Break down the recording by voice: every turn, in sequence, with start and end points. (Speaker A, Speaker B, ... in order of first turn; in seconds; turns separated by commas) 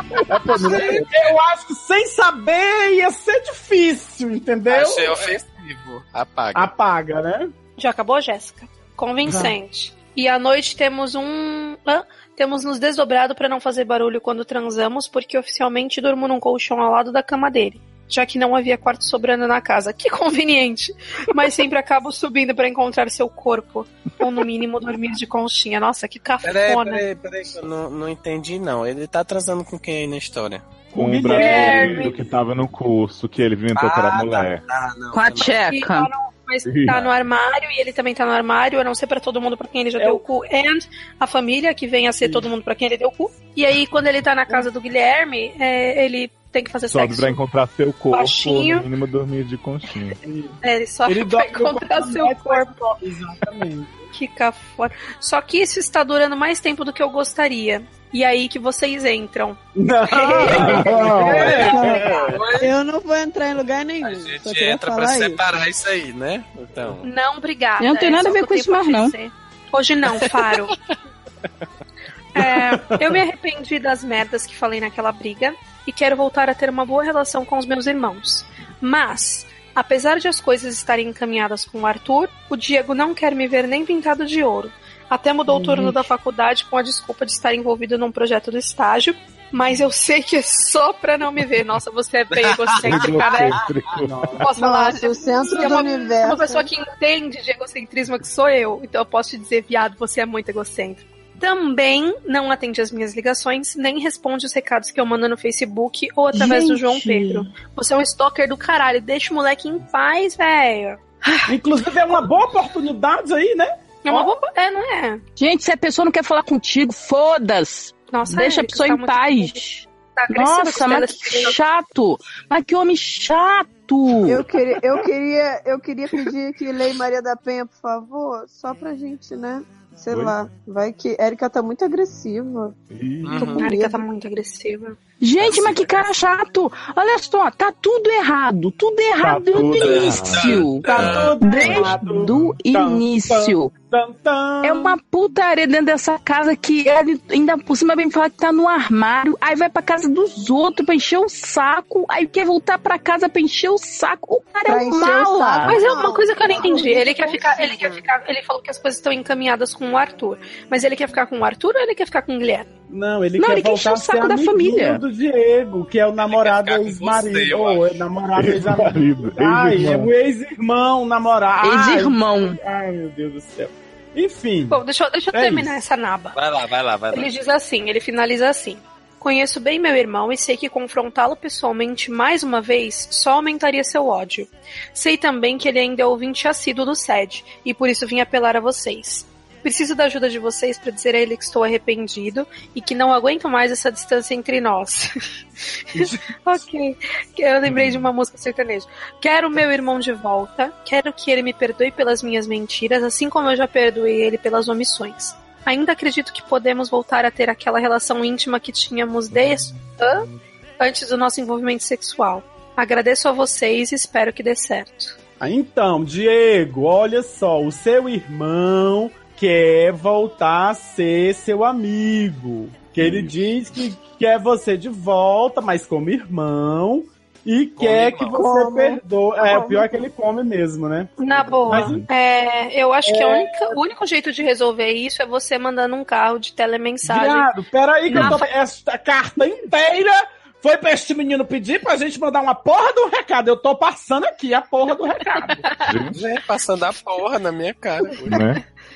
Speaker A: 0.3-1.1, Speaker B: 0.4-5.3, Speaker C: 0.9-1.4, Speaker C: 4.7-6.7, Speaker B: 6.5-7.5, Speaker D: 7.8-27.1, Speaker B: 9.3-9.5, Speaker C: 26.4-30.6, Speaker B: 30.9-32.3, Speaker A: 30.9-34.6, Speaker D: 31.3-32.2, Speaker C: 33.8-35.5, Speaker E: 35.1-36.1, Speaker D: 35.5-47.4, Speaker A: 36.6-37.0, Speaker B: 42.2-42.5, Speaker A: 46.9-50.2, Speaker D: 48.1-48.9, Speaker B: 50.2-54.1, Speaker D: 50.6-52.9, Speaker D: 54.1-61.9, Speaker B: 59.7-62.4, Speaker A: 60.6-61.8, Speaker C: 61.3-61.7, Speaker F: 61.5-65.4, Speaker C: 62.3-62.7, Speaker C: 64.0-67.1, Speaker D: 67.0-70.8, Speaker E: 67.8-69.1, Speaker C: 70.2-70.8, Speaker D: 72.3-93.6, Speaker B: 72.4-73.2, Speaker F: 85.5-86.0, Speaker C: 92.3-93.5, Speaker A: 92.8-94.5, Speaker B: 94.0-94.5, Speaker D: 94.4-111.5, Speaker F: 94.6-96.7, Speaker E: 106.3-107.4, Speaker B: 111.5-114.3, Speaker D: 114.0-115.2, Speaker E: 115.4-124.4, Speaker D: 118.1-119.6, Speaker D: 120.2-121.6, Speaker F: 124.2-132.8, Speaker A: 130.1-130.4, Speaker A: 132.9-133.5, Speaker C: 133.2-133.7, Speaker D: 133.4-135.0, Speaker F: 133.6-134.0, Speaker E: 135.2-143.7, Speaker C: 135.4-136.0, Speaker A: 139.2-142.6, Speaker C: 139.8-141.4, Speaker B: 140.8-145.0, Speaker E: 144.6-155.8, Speaker F: 154.7-158.1, Speaker D: 155.6-162.7, Speaker B: 162.9-175.7, Speaker E: 163.4-165.0, Speaker C: 166.3-168.0, Speaker A: 168.4-170.1, Speaker E: 171.6-172.6, Speaker D: 174.7-176.4, Speaker C: 176.3-177.3, Speaker D: 177.1-195.1, Speaker D: 195.9-210.3, Speaker B: 196.0-196.2, Speaker A: 197.7-198.1, Speaker D: 210.8-215.2, Speaker B: 215.4-232.0, Speaker A: 223.0-223.3, Speaker C: 227.8-228.4, Speaker F: 228.3-230.1, Speaker D: 231.2-237.5, Speaker A: 231.7-232.1, Speaker B: 233.1-233.8, Speaker B: 237.0-245.7, Speaker D: 238.1-238.5, Speaker A: 238.1-238.4, Speaker D: 245.4-245.9, Speaker A: 245.8-246.2, Speaker C: 246.1-248.4, Speaker A: 248.3-248.6